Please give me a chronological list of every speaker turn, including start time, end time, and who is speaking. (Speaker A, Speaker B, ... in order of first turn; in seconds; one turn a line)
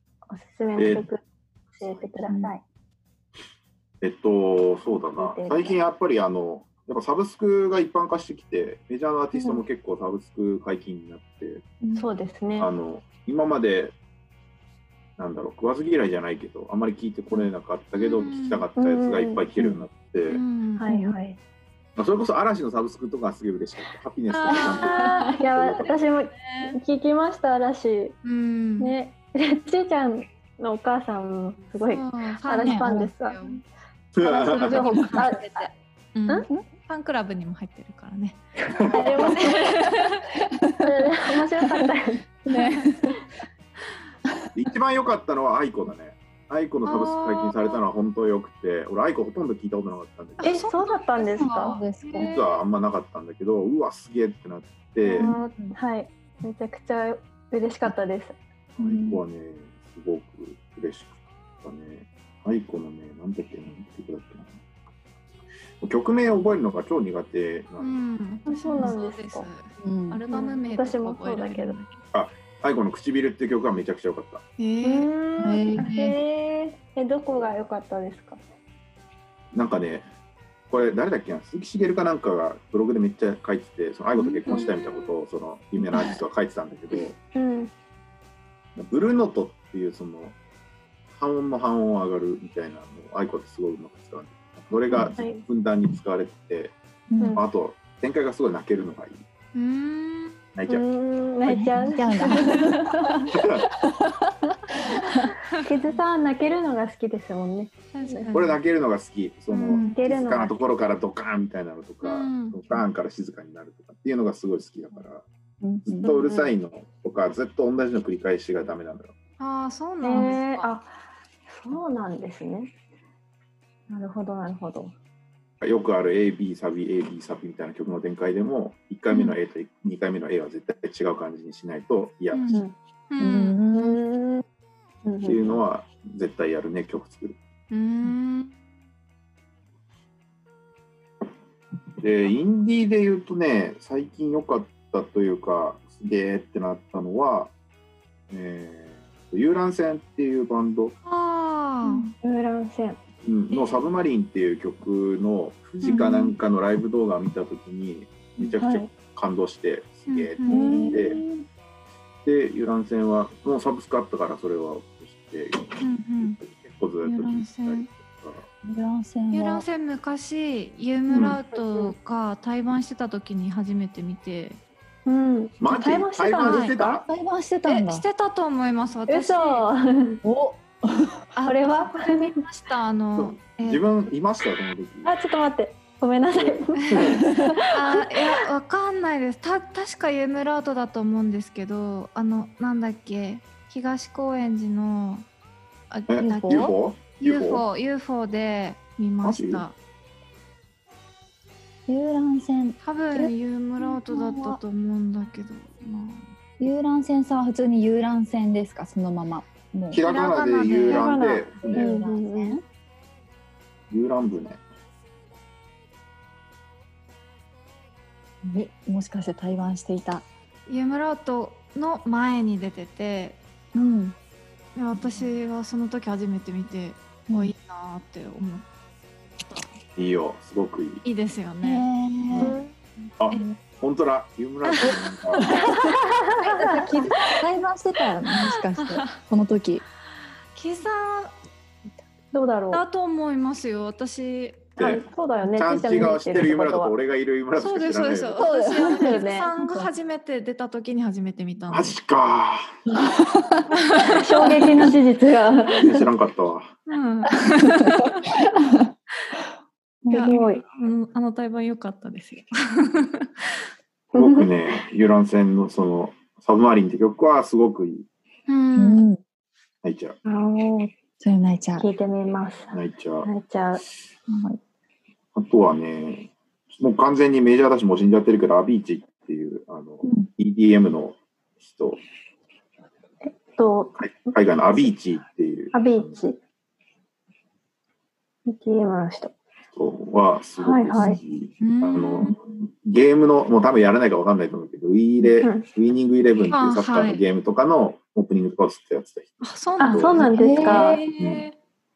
Speaker A: 0.3-1.2
Speaker B: 0.8-1.1
Speaker A: 1.8-2.6
Speaker C: 2.3-2.5
Speaker B: 4.0-11.6
Speaker A: 5.2-5.8
Speaker A: 9.3-9.6
Speaker A: 11.9-12.7
Speaker B: 12.6-13.9
Speaker B: 15.2-20.4
Speaker D: 17.9-18.6
Speaker A: 18.8-19.4
Speaker D: 20.3-20.8
Speaker A: 20.8-21.4
Speaker C: 20.9-21.1
Speaker B: 21.9-26.0
Speaker D: 24.3-25.4
Speaker A: 24.6-28.1
Speaker D: 26.3-26.8
Speaker D: 28.2-28.9
Speaker A: 28.8-33.4
Speaker D: 31.8-33.6
Speaker C: 32.6-33.1
Speaker B: 34.1-34.9
Speaker A: 34.2-35.7
Speaker D: 34.5-38.4
Speaker C: 34.8-35.3
Speaker A: 36.3-36.6
Speaker B: 38.7-39.3
Speaker A: 38.9-40.0
Speaker D: 39.0-40.3
Speaker C: 40.5-40.9
Speaker A: 40.8-42.2
Speaker C: 42.5-43.2
Speaker D: 42.5-43.0
Speaker B: 44.5-50.7
Speaker D: 46.8-47.8
Speaker D: 50.4-52.6
Speaker A: 50.4-51.8
Speaker C: 51.2-52.4
Speaker B: 52.1-55.3
Speaker A: 55.0-58.4
Speaker C: 55.2-55.8
Speaker B: 58.8-64.5
Speaker C: 58.8-59.2
Speaker B: 65.8-68.0
Speaker D: 67.8-72.0
Speaker A: 68.5-69.5
Speaker C: 69.8-70.2
Speaker A: 70.3-71.8
Speaker B: 72.1-74.4
Speaker D: 74.6-76.2
Speaker A: 74.8-78.4
Speaker C: 75.5-75.9
Speaker B: 79.5-80.1
Speaker B: 80.7-87.1
Speaker D: 84.4-85.1
Speaker C: 85.8-86.2
Speaker A: 87.3-87.7
Speaker B: 88.8-90.3
Speaker B: 91.1-96.8
Speaker A: 94.9-95.4
Speaker C: 97.1-97.4
Speaker B: 97.3-99.2
Speaker D: 99.5-100.4
Speaker B: 100.5-100.8
Speaker A: 100.7-103.3
Speaker C: 101.5-105.2
Speaker B: 103.3-103.7
Speaker A: 105.5-108.3
Speaker D: 107.9-108.6
Speaker B: 108.3-115.2
Speaker D: 109.5-110.0
Speaker A: 109.8-110.5
Speaker D: 112.0-112.8
Speaker C: 115.6-116.1
Speaker B: 115.8-119.1
Speaker A: 116.0-116.5
Speaker D: 119.4-120.7
Speaker A: 120.0-120.9
Speaker A: 121.5-122.7
Speaker A: 123.9-124.9
Speaker B: 125.6-132.5
Speaker D: 129.1-129.3
Speaker D: 132.3-132.6
Speaker D: 133.1-133.6
Speaker C: 133.2-134.0
Speaker A: 133.7-134.4
Speaker A: 135.0-135.6
Speaker B: 135.2-137.4
Speaker D: 137.7-138.5
Speaker B: 142.0-147.5
Speaker B: 148.3-150.9
Speaker D: 151.1-152.1
Speaker A: 152.1-153.0
Speaker B: 153.2-161.2
Speaker D: 153.5-153.9
Speaker D: 155.8-156.3
Speaker A: 158.6-158.9
Speaker D: 160.1-160.9
Speaker A: 160.5-161.4
Speaker B: 162.2-168.4
Speaker D: 165.8-166.4
Speaker D: 167.0-167.9
Speaker C: 168.6-169.6
Speaker D: 169.3-174.6
Speaker B: 171.1-171.4
Speaker A: 171.6-171.9
Speaker A: 175.1-177.0
Speaker B: 175.6-177.1
Speaker D: 176.4-176.7
Speaker C: 177.0-178.0
Speaker D: 177.6-179.7
Speaker A: 179.1-180.2
Speaker C: 180.2-181.2
Speaker D: 181.3-183.8
Speaker A: 181.4-182.4
Speaker B: 183.2-185.1
Speaker A: 185.0-188.3
Speaker D: 186.8-187.1
Speaker B: 186.9-187.2
Speaker C: 187.1-187.5
Speaker D: 187.7-195.2
Speaker D: 195.9-199.7
Speaker B: 196.1-197.6
Speaker C: 196.2-196.7
Speaker B: 199.2-199.6
Speaker C: 201.9-204.6
Speaker D: 202.8-206.2
Speaker C: 206.6-210.0
Speaker B: 209.9-212.0
Speaker D: 210.0-211.3
Speaker A: 210.9-212.6
Speaker C: 211.6-212.6
Speaker B: 213.9-214.6
Speaker C: 218.4-220.2
Speaker D: 220.7-223.4
Speaker C: 223.7-224.2
Speaker D: 224.8-228.7
Speaker D: 229.4-229.7
Speaker B: 230.0-231.0
Speaker D: 231.0-231.9
Speaker C: 231.6-232.6
Speaker B: 232.3-232.6
Speaker A: 232.4-232.7
Speaker B: 233.2-235.5
Speaker D: 234.7-235.0
Speaker C: 234.8-239.8
Speaker A: 236.1-237.2
Speaker D: 238.4-239.0
Speaker D: 240.5-241.3
Speaker A: 242.3-242.8
Speaker D: 242.7-244.7
Speaker A: 244.8-246.9
Speaker B: 244.8-248.4
Speaker D: 247.6-251.9
Speaker C: 248.4-249.9
Speaker A: 248.8-249.5
Speaker B: 251.7-252.7
Speaker C: 252.9-253.7
Speaker D: 253.9-254.1
Speaker A: 254.0-256.0
Speaker B: 255.8-256.7
Speaker D: 256.9-258.2
Speaker C: 258.6-258.9
Speaker C: 260.0-260.3
Speaker A: 260.1-260.6
Speaker D: 260.1-263.5
Speaker A: 264.1-264.5
Speaker B: 264.1-268.1
Speaker D: 268.5-269.0
Speaker C: 268.8-269.2
Speaker B: 269.8-270.2
Speaker A: 270.2-270.9
Speaker C: 271.2-271.9
Speaker A: 271.8-273.8
Speaker B: 272.7-273.3
Speaker C: 274.3-274.6
Speaker B: 275.3-282.0
Speaker A: 283.2-283.9
Speaker B: 283.9-286.1
Speaker A: 285.7-286.4
Speaker A: 288.4-289.3
Speaker B: 289.7-300.2
Speaker A: 290.6-291.2
Speaker D: 291.6-292.4
Speaker A: 295.3-295.6
Speaker D: 296.5-297.2
Speaker D: 299.4-301.5
Speaker A: 299.8-301.0
Speaker C: 300.2-300.9
Speaker B: 301.2-301.4